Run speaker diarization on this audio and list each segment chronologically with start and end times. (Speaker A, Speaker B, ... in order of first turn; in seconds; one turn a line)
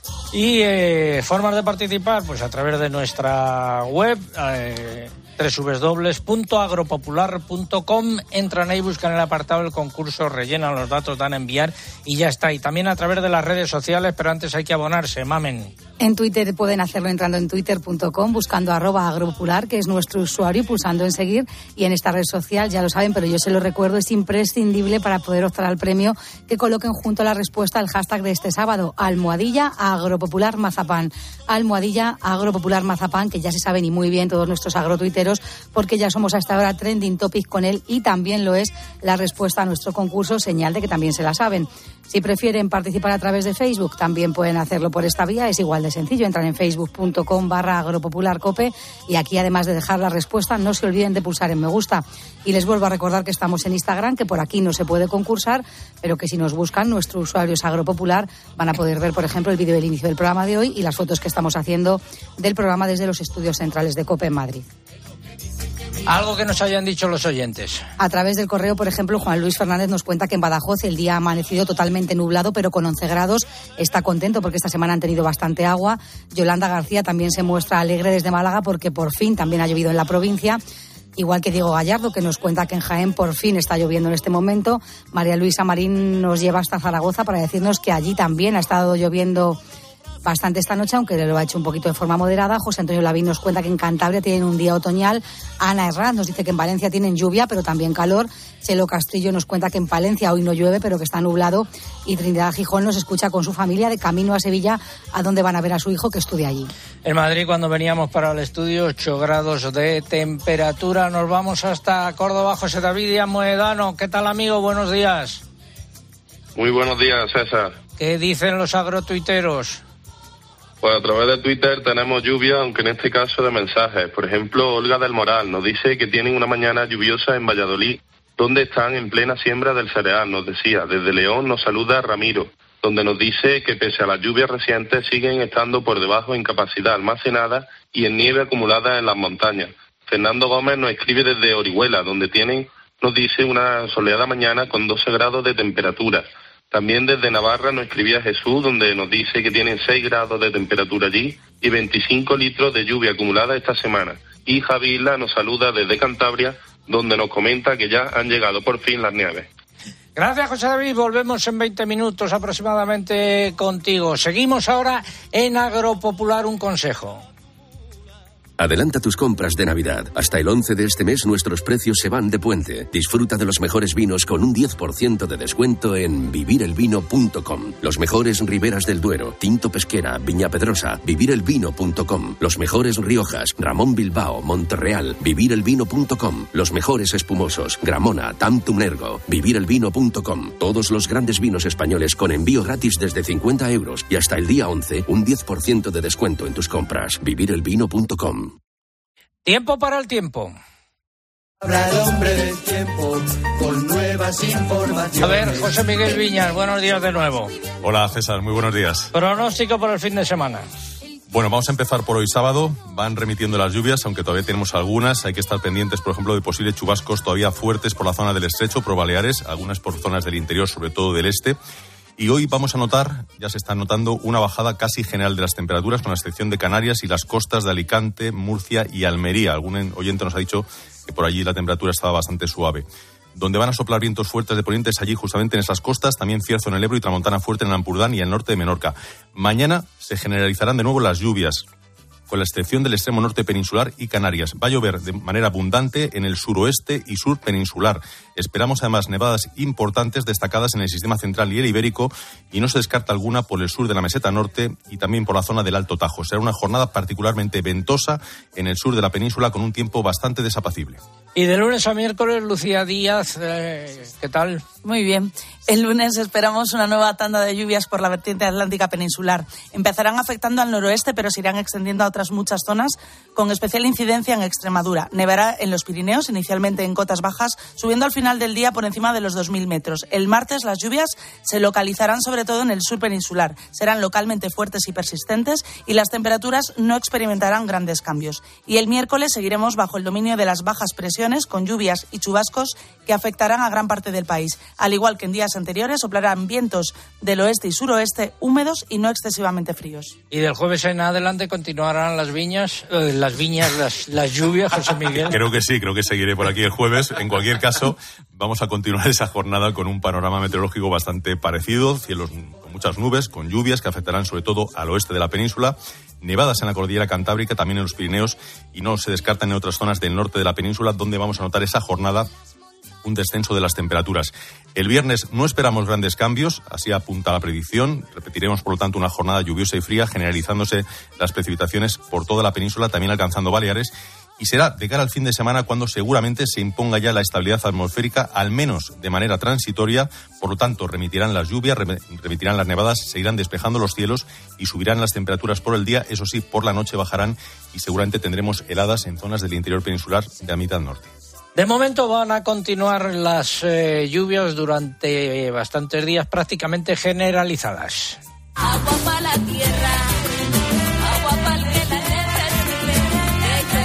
Speaker A: 0.3-15.7
Speaker B: 16.0-64.7
Speaker A: 66.1-67.8
Speaker B: 68.0-80.6
Speaker B: 81.2-89.6
Speaker B: 90.2-106.7
Speaker A: 107.0-115.4
Speaker C: 116.6-117.8
Speaker A: 118.0-119.8
Speaker C: 120.8-159.5
Speaker A: 160.2-167.2
Speaker D: 168.6-198.6
Speaker A: 199.5-200.5
Speaker E: 201.7-202.9
Speaker E: 203.8-205.0
Speaker A: 205.1-207.5
Speaker F: 207.8-209.1
Speaker A: 209.1-210.7
Speaker F: 211.3-221.6
Speaker F: 222.2-241.6
Speaker F: 242.3-261.0
Speaker A: 261.4-264.6
Speaker G: 264.8-300.1
Speaker A: 300.3-305.4
Speaker F: 305.3-322.3
Speaker F: 323.0-351.1
Speaker A: 351.6-358.2